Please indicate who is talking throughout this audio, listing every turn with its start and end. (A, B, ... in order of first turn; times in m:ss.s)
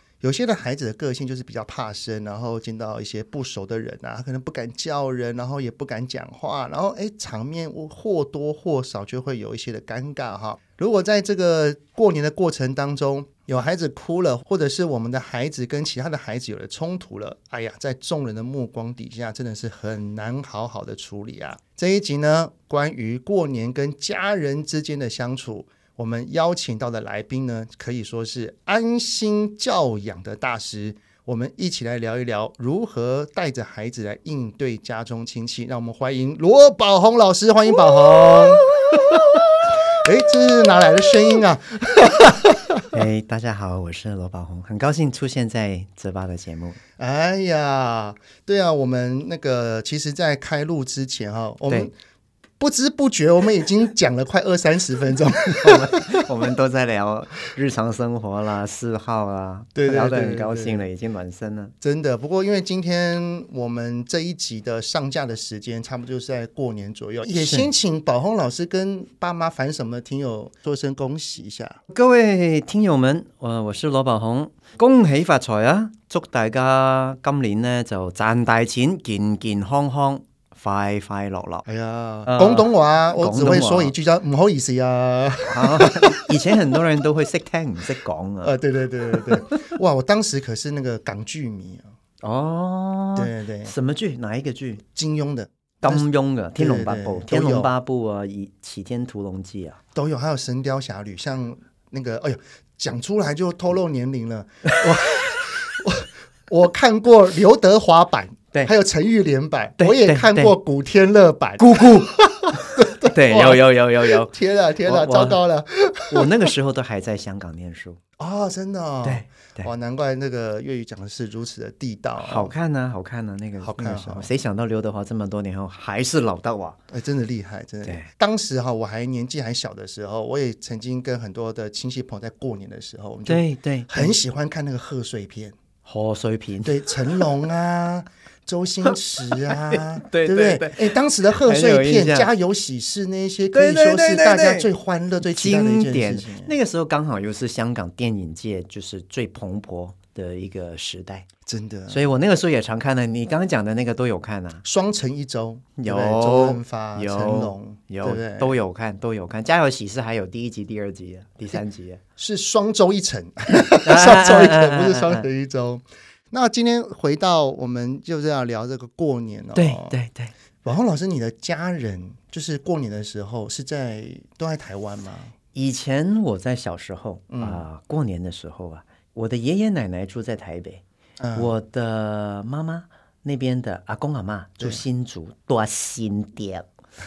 0:00.2-0:42.9 A
0:37.7-0:39.5 B
0:40.8-0:41.1 B
0:42.9-0:46.8 B
0:47.0-0:51.9 A
0:52.6-0:56.3 A
0:55.5-1:01.7 B
0:59.8-1:00.9 A
1:01.8-1:11.8 A
1:07.3-1:07.7 B
1:11.9-1:21.6 B
1:21.7-1:26.6 A
1:22.3-1:23.9 B
1:25.4-1:28.6 B
1:28.4-1:31.9 A
1:29.1-1:29.6 B
1:32.2-1:34.8 B
1:33.2-1:33.7 A
1:34.9-1:37.7 A
1:35.8-1:39.8 B
1:40.0-1:56.5 A
1:49.8-1:50.6 B
1:51.6-1:54.3 B
1:54.8-1:55.4 B
1:56.1-1:58.0 B
1:58.2-2:02.5 A
1:59.0-1:59.7 B
2:02.2-2:06.8 B
2:03.6-2:04.3 A
2:06.9-2:15.6 A
2:07.8-2:08.1 B
2:13.3-2:14.2 B
2:15.8-2:17.3 B
2:16.6-2:26.5 A
2:18.8-2:22.3 B
2:23.5-2:24.7 B
2:25.2-2:31.3 B
2:31.5-2:32.1 A
2:31.9-2:34.6 B
2:34.6-2:38.5 A
2:35.8-2:42.0 B
2:42.2-2:50.0 A
2:43.8-2:45.3 B
2:49.6-2:50.3 B
2:50.6-2:55.3 A
2:55.5-3:00.8 B
2:57.3-2:57.6 A
3:01.2-3:01.5 A
3:01.4-3:06.7 B